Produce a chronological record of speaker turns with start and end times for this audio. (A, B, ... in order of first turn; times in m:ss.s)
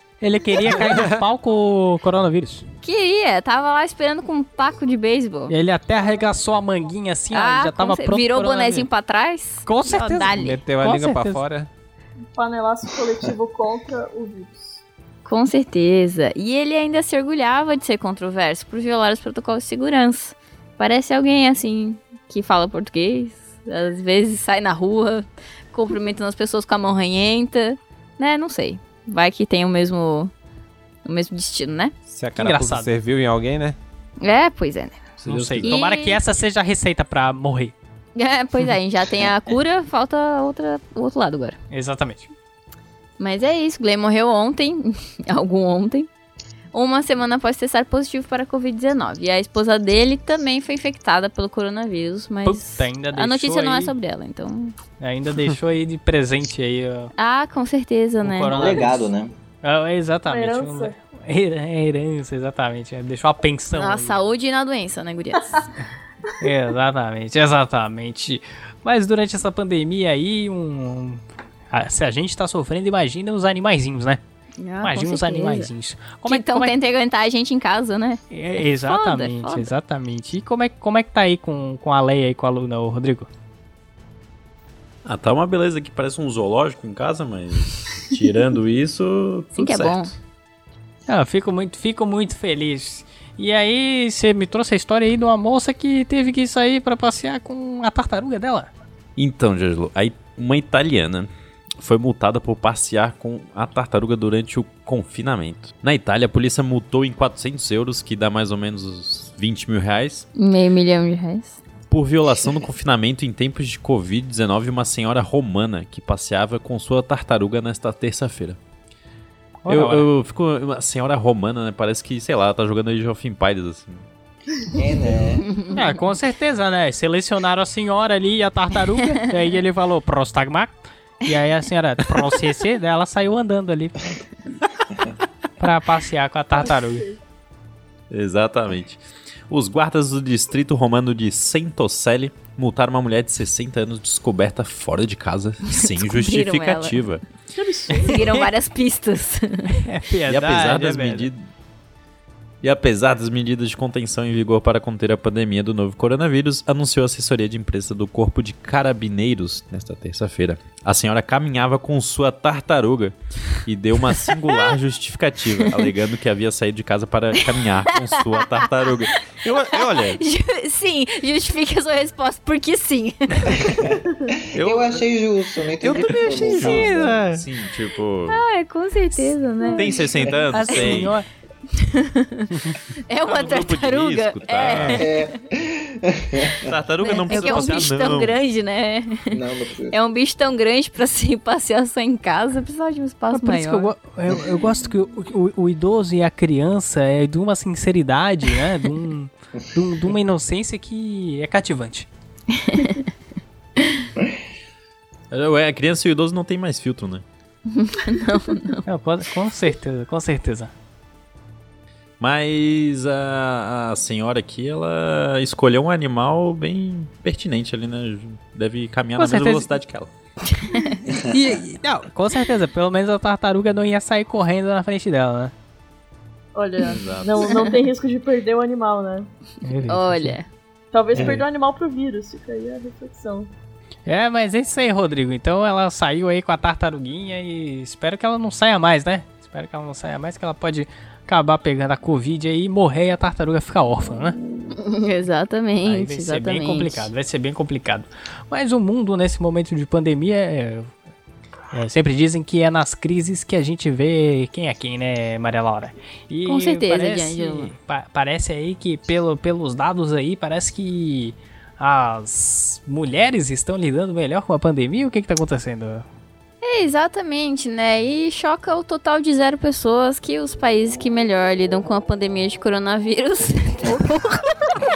0:00.2-0:02.6 A
0:00.6-0:01.2 B
0:02.8-0:05.5 C
0:05.5-0:08.9 A
0:07.3-0:10.6 C
0:09.6-0:11.4 A
0:10.2-0:11.7 B
0:12.3-0:14.8 D
0:15.2-0:30.3 C
0:31.0-0:31.9 C
0:32.1-0:33.8 B
0:32.4-0:32.9 A
0:34.2-0:35.1 C
0:35.2-0:35.7 B
0:35.2-0:37.7 A
0:35.6-0:36.2 C
0:38.2-0:41.6 C
0:41.7-0:42.3 A
0:43.2-0:46.1 C
0:46.7-0:54.8 C
0:52.4-0:53.9 A
0:55.0-0:57.1 A
0:57.2-0:58.7 C
0:58.2-0:59.1 A
0:58.4-0:59.3 E
0:59.6-1:04.2 A
1:00.3-1:00.9 D
1:03.7-1:05.6 C
1:06.4-1:14.2 A
1:14.6-1:15.7 C
1:14.8-1:16.7 A
1:16.2-1:18.2 C
1:18.3-1:23.3 A
1:18.8-1:19.7 C
1:25.0-1:30.1 F
1:29.6-1:30.1 C
1:31.1-1:38.7 A
1:39.2-1:50.3 F
1:50.4-1:51.6 C
1:51.9-1:58.6 F
1:59.6-2:00.1 A
1:59.7-2:04.0 F
2:04.7-2:05.5 E
2:05.5-2:06.0 C
2:05.7-2:10.7 A
2:11.2-2:14.1 A
2:15.6-2:17.0 A
2:16.6-2:17.2 D
2:18.1-2:27.2 F
2:25.7-2:27.1 C
2:27.5-2:28.3 D
2:27.9-2:28.5 A
2:28.0-2:29.8 C
2:29.7-2:31.3 A
2:30.3-2:31.4 F
2:32.6-2:50.2 F
2:47.4-2:48.5 C
2:49.1-2:53.7 C
2:53.5-2:54.0 E
2:54.5-2:57.1 E
2:54.5-2:55.0 F
2:55.8-2:57.0 B
2:55.9-2:57.4 A
2:56.1-2:58.4 F
2:58.3-3:01.1 C
2:59.7-3:01.1 F
3:00.5-3:01.2 A
3:01.7-3:05.3 C
3:03.2-3:05.1 F
3:04.8-3:06.7 E
3:06.6-3:08.4 F
3:07.0-3:09.4 C
3:07.3-3:07.9 A
3:09.3-3:10.0 E
3:09.9-3:13.9 C
3:13.3-3:22.1 A
3:22.5-3:23.1 C
3:25.3-3:27.2 F
3:27.7-3:28.8 C
3:28.8-3:30.7 A
3:32.2-3:40.1 F
3:39.2-3:39.7 A
3:40.5-3:41.0 C
3:41.2-3:45.5 A
3:46.5-3:49.3 D
3:46.8-3:47.5 F
3:49.6-3:50.4 A
3:49.9-3:50.5 C
3:50.9-3:53.5 D
3:54.0-4:04.4 A
4:04.7-4:07.1 C
4:05.8-4:10.9 A
4:11.7-4:26.0 A
4:16.4-4:17.7 C
4:26.6-4:34.7 C